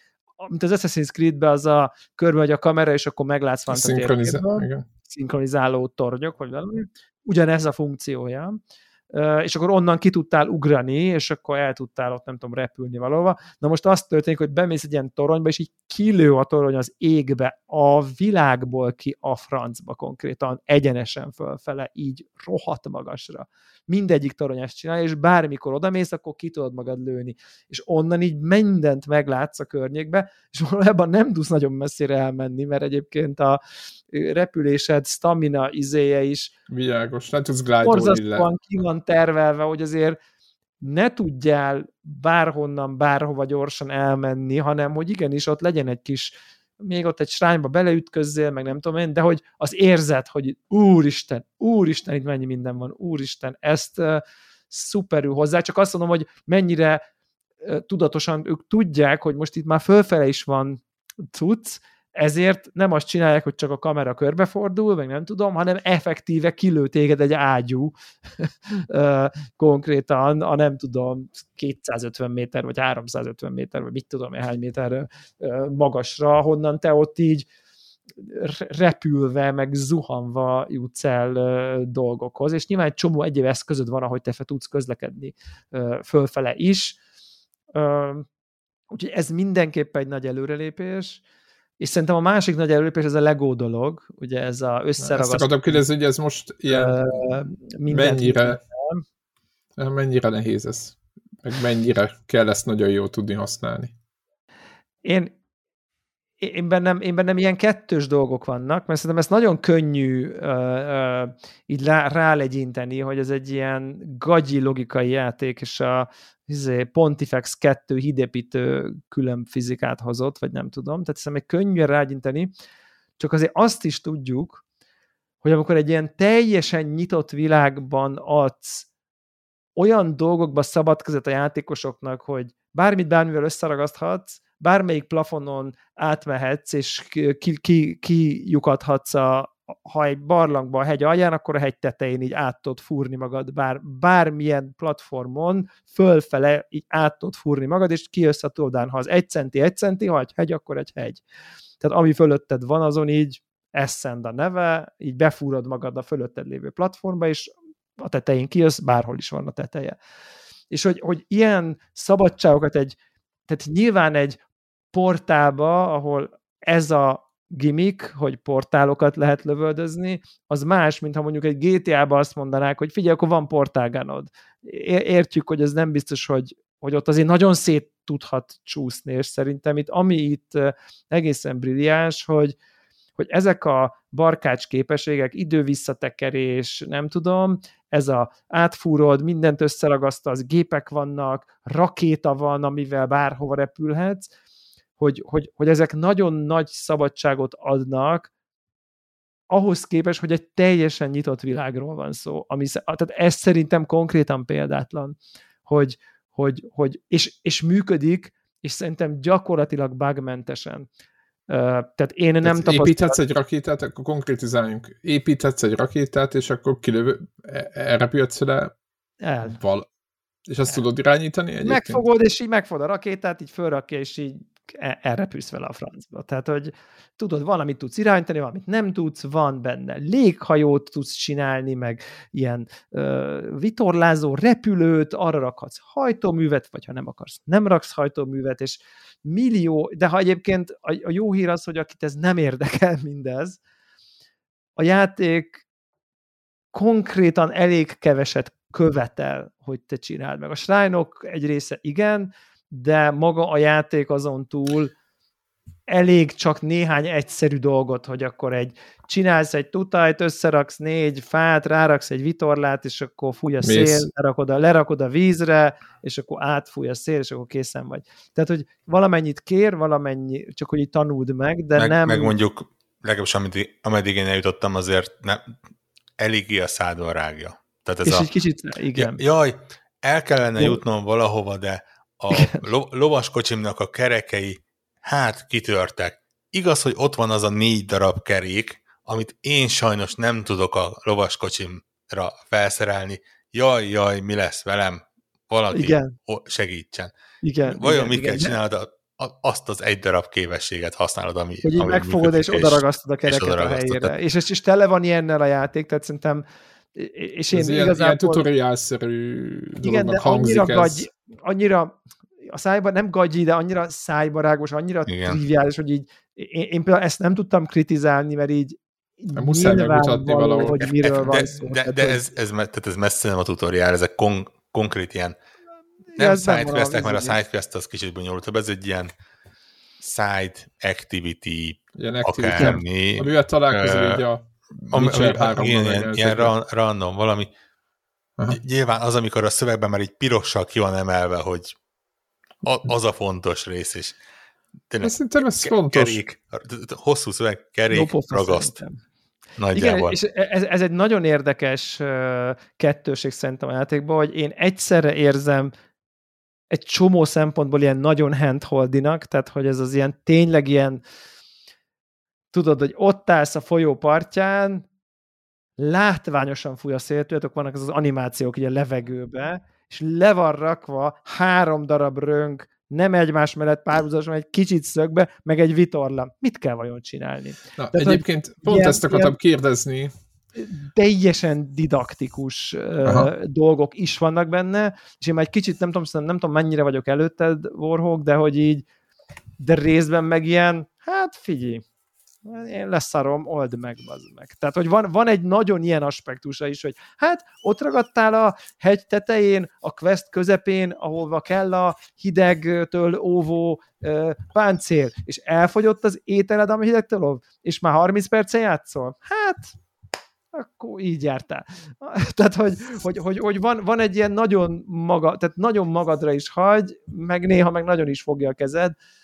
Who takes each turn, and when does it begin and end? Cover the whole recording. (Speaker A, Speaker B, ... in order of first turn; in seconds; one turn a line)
Speaker A: 0.4-8.6
Speaker B: 3.7-4.8
Speaker A: 9.1-33.6
Speaker A: 34.1-36.5
Speaker B: 36.7-38.5
Speaker A: 37.8-40.2
Speaker A: 40.8-57.0
Speaker A: 57.6-60.8
Speaker A: 61.3-77.5
Speaker A: 78.2-87.0
Speaker A: 87.7-88.3
Speaker A: 88.9-91.2
Speaker A: 91.8-95.8
Speaker B: 95.0-97.3
Speaker A: 96.7-99.0
Speaker B: 97.9-98.6
Speaker B: 99.8-103.9
Speaker A: 105.0-105.3
Speaker A: 106.4-122.5
Speaker A: 123.2-124.6
Speaker A: 125.4-128.8
Speaker A: 129.8-151.2
Speaker A: 151.8-159.9
Speaker A: 160.7-163.0
Speaker A: 163.5-164.4
Speaker A: 164.9-182.6
Speaker A: 183.2-194.3
Speaker A: 195.0-198.3
Speaker A: 199.5-205.2
Speaker A: 205.7-210.9
Speaker A: 211.5-213.2
Speaker B: 212.4-218.7
Speaker A: 219.2-219.6
Speaker B: 219.4-219.9
Speaker B: 220.5-222.0
Speaker A: 221.6-243.6
Speaker A: 244.8-245.6
Speaker A: 246.7-254.9
Speaker A: 255.9-272.3
Speaker B: 263.6-264.1
Speaker C: 271.8-275.6
Speaker C: 276.2-278.3
Speaker A: 278.0-279.2
Speaker C: 278.9-297.1
Speaker A: 282.3-282.6
Speaker A: 295.7-296.1
Speaker A: 297.4-298.6
Speaker C: 297.7-304.1
Speaker A: 301.6-308.4
Speaker B: 307.5-311.1
Speaker A: 309.8-322.2
Speaker C: 315.1-315.4
Speaker B: 319.3-320.9
Speaker C: 320.9-325.4
Speaker A: 326.1-327.4
Speaker C: 326.2-329.1
Speaker C: 330.0-334.2
Speaker B: 332.0-336.5
Speaker C: 334.9-337.5
Speaker C: 338.5-341.7
Speaker C: 342.6-344.2
Speaker C: 344.9-348.8
Speaker B: 345.0-346.2
Speaker A: 347.9-349.0
Speaker C: 349.6-350.1
Speaker A: 349.7-355.7
Speaker A: 356.7-361.0
Speaker A: 362.5-364.9
Speaker A: 365.8-379.3
Speaker B: 377.8-380.1
Speaker A: 380.6-388.9
Speaker B: 383.0-383.3
Speaker A: 389.6-391.8
Speaker A: 392.4-409.8
Speaker A: 410.5-418.9